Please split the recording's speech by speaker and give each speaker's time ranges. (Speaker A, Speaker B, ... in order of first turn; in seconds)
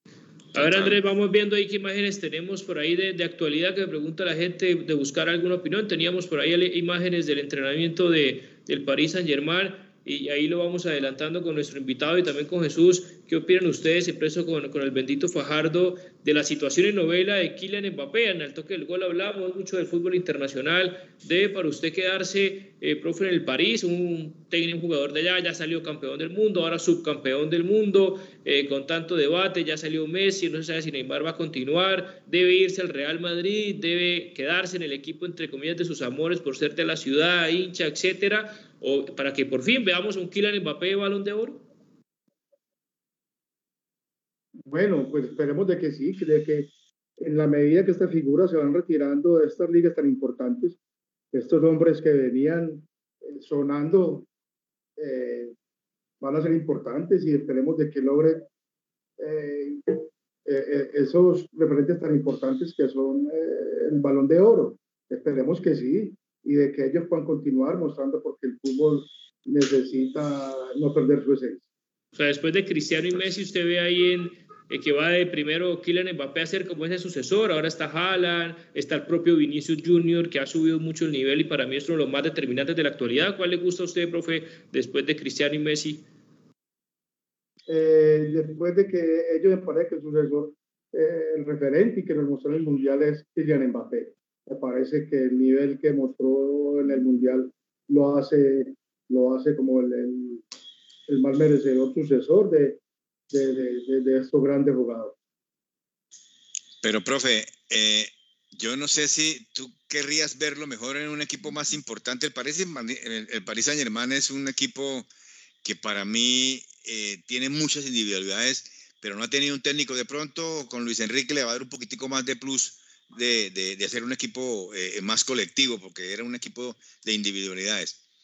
Speaker A: 0.5-41.6, 72.2-86.0
Speaker B: 0.6-1.0, 106.8-115.1, 115.6-128.0
Speaker C: 44.7-50.8, 51.3-54.3, 55.0-55.5, 56.2-58.5, 59.2-71.6, 87.7-100.4, 101.1-102.8, 103.3-105.2